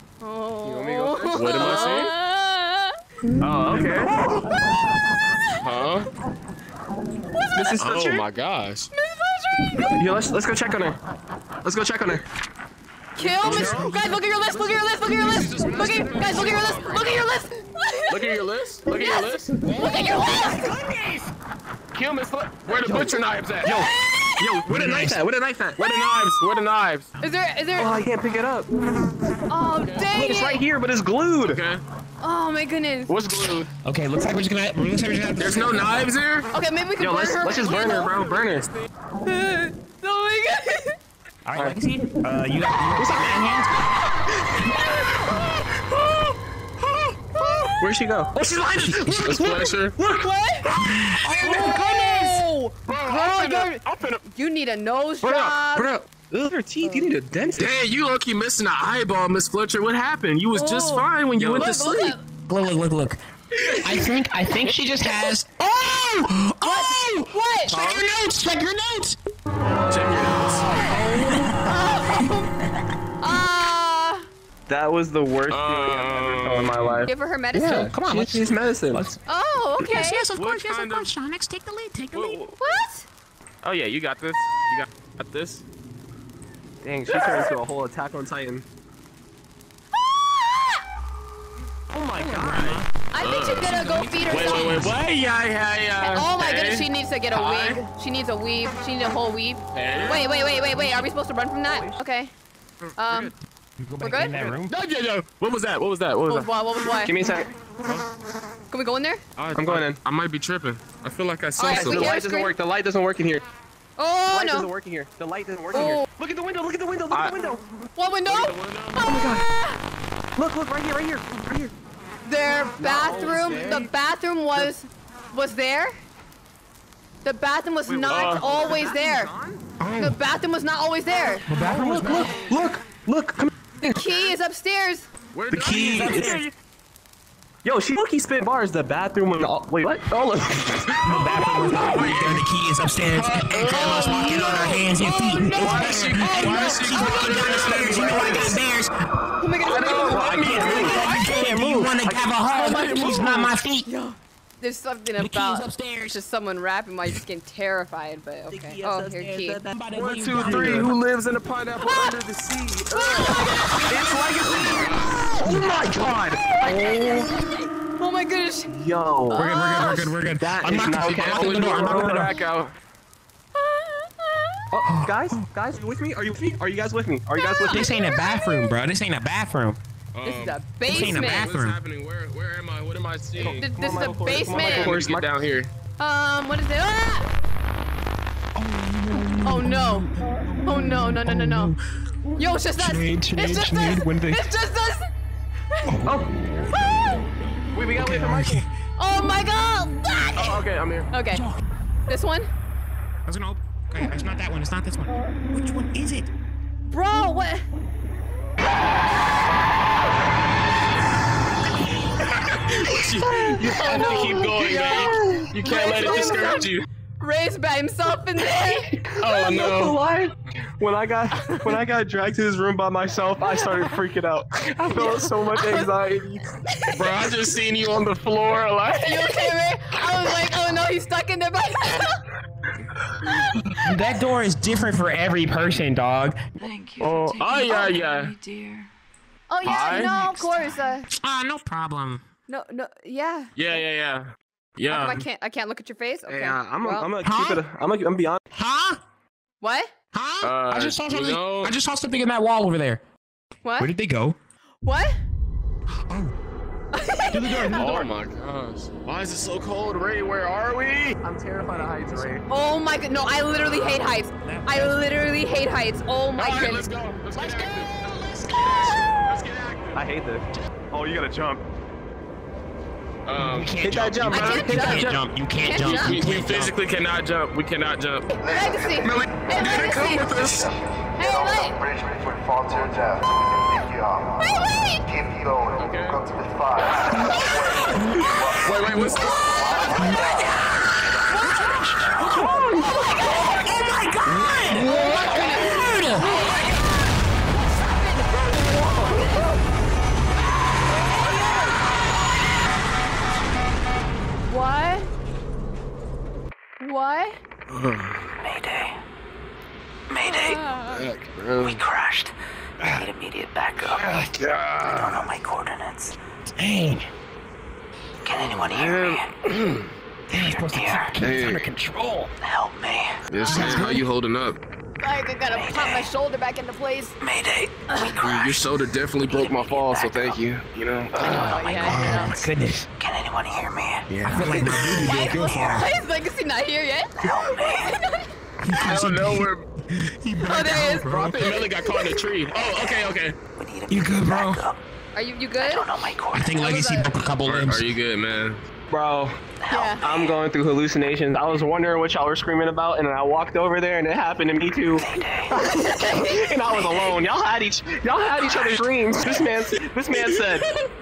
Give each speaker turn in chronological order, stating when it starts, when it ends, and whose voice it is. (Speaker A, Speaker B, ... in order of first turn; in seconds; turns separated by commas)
Speaker A: 0.2-3.0, Speaker B: 0.7-2.1, Speaker C: 1.2-2.1, Speaker B: 3.4-4.1, Speaker C: 3.4-4.0, Speaker C: 5.6-6.1, Speaker A: 7.4-7.9, Speaker B: 7.5-8.2, Speaker C: 7.8-8.9, Speaker A: 8.9-10.0, Speaker B: 10.0-11.0, Speaker B: 11.6-12.2, Speaker A: 13.2-20.7, Speaker B: 13.4-14.0, Speaker C: 13.4-17.3, Speaker C: 18.1-19.4, Speaker D: 19.6-21.3, Speaker C: 21.9-23.8, Speaker B: 22.7-25.8, Speaker A: 23.7-24.4, Speaker D: 24.7-25.2, Speaker C: 25.8-27.1, Speaker A: 27.2-28.0, Speaker B: 27.8-28.7, Speaker A: 29.5-30.6, Speaker C: 29.8-30.1, Speaker B: 30.1-31.6, Speaker C: 31.4-31.8, Speaker A: 32.2-33.2, Speaker C: 33.1-33.7, Speaker D: 33.8-36.1, Speaker C: 35.4-36.5, Speaker A: 36.5-38.1, Speaker B: 37.0-38.7, Speaker C: 37.6-38.9, Speaker A: 39.2-41.0, Speaker D: 41.5-43.9, Speaker B: 43.0-43.7, Speaker A: 44.6-45.5, Speaker C: 45.9-47.2, Speaker A: 47.4-47.8, Speaker B: 47.8-50.2, Speaker D: 48.3-49.5, Speaker C: 49.2-50.0, Speaker A: 50.0-50.7, Speaker D: 50.8-52.4, Speaker A: 51.2-55.9, Speaker C: 52.9-54.2, Speaker C: 55.2-55.6, Speaker B: 55.7-57.7, Speaker A: 56.8-57.1, Speaker C: 57.6-62.1, Speaker A: 60.5-62.2, Speaker B: 61.4-61.7, Speaker D: 62.5-69.2, Speaker B: 63.6-64.1, Speaker A: 66.6-67.9, Speaker B: 67.7-68.1, Speaker C: 69.8-70.7, Speaker A: 70.7-72.5, Speaker D: 70.8-72.3, Speaker B: 70.8-71.5, Speaker A: 73.2-74.3, Speaker B: 74.7-79.1, Speaker C: 75.5-77.1, Speaker A: 77.1-77.9, Speaker D: 77.7-79.2, Speaker A: 79.3-80.2, Speaker D: 79.8-82.4, Speaker C: 80.4-81.1, Speaker C: 82.1-82.4, Speaker A: 82.6-83.1, Speaker C: 83.6-85.7, Speaker B: 86.8-88.7, Speaker A: 89.9-90.8, Speaker D: 91.9-92.9, Speaker C: 92.3-97.8, Speaker A: 93.1-94.9, Speaker D: 93.7-95.0, Speaker A: 96.0-102.3, Speaker C: 99.7-100.3, Speaker B: 101.7-102.0, Speaker C: 102.8-103.3, Speaker A: 103.0-103.3, Speaker D: 103.8-104.7, Speaker A: 104.0-104.5, Speaker C: 104.3-106.5, Speaker A: 106.3-107.2, Speaker B: 107.0-107.5, Speaker C: 107.8-108.1, Speaker A: 108.7-109.2, Speaker C: 109.4-112.2, Speaker B: 109.6-110.0, Speaker A: 111.6-112.6, Speaker B: 111.7-113.5, Speaker A: 114.0-114.7, Speaker B: 114.3-117.7, Speaker A: 115.7-116.1, Speaker C: 117.1-117.4, Speaker A: 118.0-119.8, Speaker C: 118.3-119.1, Speaker B: 119.0-119.5, Speaker B: 120.4-121.7, Speaker A: 122.3-125.9, Speaker B: 122.8-123.9, Speaker A: 127.2-129.3, Speaker B: 127.8-129.6, Speaker C: 128.1-128.7, Speaker D: 129.8-130.2, Speaker A: 130.0-131.5, Speaker D: 131.5-132.3, Speaker B: 131.6-134.1, Speaker A: 133.9-135.1, Speaker C: 135.3-136.4, Speaker B: 135.5-136.5, Speaker D: 135.7-136.5, Speaker B: 137.6-140.9, Speaker C: 140.9-142.5, Speaker D: 141.0-148.9, Speaker C: 143.1-144.9, Speaker A: 143.7-148.6, Speaker C: 145.5-148.6, Speaker A: 149.4-151.2, Speaker C: 149.7-151.5, Speaker B: 150.1-152.3, Speaker D: 150.1-153.9, Speaker C: 152.5-153.5, Speaker A: 153.9-159.6, Speaker D: 155.2-156.2, Speaker B: 158.5-160.9, Speaker D: 159.7-160.9, Speaker C: 160.0-163.4, Speaker A: 161.8-162.2, Speaker A: 162.9-163.7, Speaker D: 163.2-164.2, Speaker B: 163.9-167.3, Speaker C: 164.4-165.2, Speaker D: 164.8-165.8, Speaker A: 166.6-168.7, Speaker B: 168.7-172.3, Speaker A: 169.3-170.1, Speaker D: 169.3-172.3, Speaker C: 170.8-172.7, Speaker A: 173.6-174.7, Speaker B: 174.7-177.9, Speaker D: 174.9-175.4, Speaker A: 177.3-178.7, Speaker D: 177.7-179.8, Speaker C: 180.2-183.7, Speaker A: 180.2-181.5, Speaker D: 180.9-181.8, Speaker B: 183.4-185.3, Speaker A: 183.4-185.0, Speaker C: 184.5-185.7, Speaker A: 186.0-187.3, Speaker D: 188.6-194.5, Speaker A: 189.4-190.1, Speaker A: 190.6-191.7, Speaker A: 192.4-195.1, Speaker D: 195.8-196.7, Speaker B: 196.0-196.3, Speaker A: 196.7-197.3, Speaker B: 197.7-198.7, Speaker D: 197.9-198.7, Speaker A: 199.0-201.4, Speaker C: 200.4-201.1, Speaker D: 201.3-201.6, Speaker A: 202.1-202.5, Speaker D: 203.3-206.3, Speaker A: 206.9-207.7, Speaker C: 212.2-216.9, Speaker B: 212.9-216.5, Speaker A: 213.6-219.0, Speaker B: 218.4-226.4, Speaker C: 219.2-220.0, Speaker A: 225.0-225.9, Speaker C: 226.9-229.5, Speaker A: 229.0-232.2, Speaker D: 233.8-236.4, Speaker D: 237.0-237.6, Speaker C: 237.4-238.4, Speaker A: 239.5-241.1, Speaker C: 239.6-240.1, Speaker D: 239.7-242.2, Speaker A: 242.5-243.5, Speaker C: 243.6-245.3, Speaker A: 244.9-247.1, Speaker B: 246.3-248.4, Speaker D: 247.2-247.6, Speaker D: 248.5-249.0, Speaker A: 249.6-249.9, Speaker D: 250.1-253.0, Speaker C: 250.4-251.7, Speaker A: 253.7-253.9, Speaker D: 253.8-254.4, Speaker A: 254.8-255.2, Speaker D: 256.1-256.3, Speaker A: 256.9-258.0, Speaker D: 257.3-258.0, Speaker C: 257.7-261.2, Speaker B: 261.2-262.4, Speaker A: 262.5-266.9, Speaker C: 263.5-264.1, Speaker D: 264.4-265.1, Speaker C: 266.4-270.1, Speaker D: 267.4-268.7, Speaker B: 269.9-271.6, Speaker C: 273.3-273.8, Speaker D: 273.4-276.8, Speaker B: 273.8-275.2, Speaker A: 274.3-276.4, Speaker C: 275.8-278.3, Speaker A: 278.4-280.6, Speaker E: 278.4-290.5, Speaker C: 279.1-280.7, Speaker A: 281.2-281.8, Speaker A: 284.4-285.1, Speaker C: 285.8-286.2, Speaker D: 287.2-289.2, Speaker C: 288.6-290.1, Speaker D: 290.0-290.6, Speaker A: 291.3-291.9, Speaker D: 291.3-296.3, Speaker B: 292.4-292.9, Speaker A: 292.6-293.4, Speaker A: 294.8-296.6, Speaker C: 296.2-296.5, Speaker A: 297.8-299.5, Speaker C: 298.5-299.5, Speaker C: 301.0-301.8, Speaker A: 301.1-301.7, Speaker A: 304.5-305.1, Speaker A: 306.8-307.4, Speaker C: 307.7-308.3, Speaker F: 308.4-309.0, Speaker F: 310.1-310.6, Speaker A: 310.2-311.1, Speaker C: 310.9-311.8, Speaker F: 311.6-312.3, Speaker F: 312.8-314.2, Speaker C: 314.0-315.3, Speaker F: 314.9-316.2, Speaker D: 316.5-317.1, Speaker F: 318.2-319.3, Speaker C: 318.6-319.9, Speaker D: 320.3-322.3, Speaker F: 320.3-321.2, Speaker C: 321.2-321.7, Speaker F: 322.4-323.2, Speaker C: 323.3-324.6, Speaker A: 323.3-323.8, Speaker D: 323.5-324.1, Speaker A: 325.0-327.1, Speaker F: 325.5-326.1, Speaker F: 327.2-330.4, Speaker A: 327.9-328.2, Speaker C: 328.2-331.6, Speaker A: 331.2-332.5, Speaker F: 331.3-332.3, Speaker D: 331.8-332.9, Speaker F: 333.0-334.1, Speaker C: 334.1-335.2, Speaker D: 334.2-335.9, Speaker A: 334.3-337.1, Speaker F: 337.2-338.0, Speaker A: 337.7-338.3, Speaker D: 338.6-341.4, Speaker C: 338.8-339.6, Speaker A: 340.4-342.1, Speaker C: 341.1-343.4, Speaker F: 343.6-344.8, Speaker D: 343.9-344.6, Speaker A: 345.1-345.9, Speaker F: 345.6-346.6, Speaker D: 346.3-347.9, Speaker A: 346.6-347.1, Speaker C: 347.4-348.6, Speaker B: 348.9-349.4, Speaker F: 349.6-350.4, Speaker A: 349.7-350.0, Speaker B: 350.0-360.7, Speaker F: 355.0-355.6, Speaker A: 355.6-357.2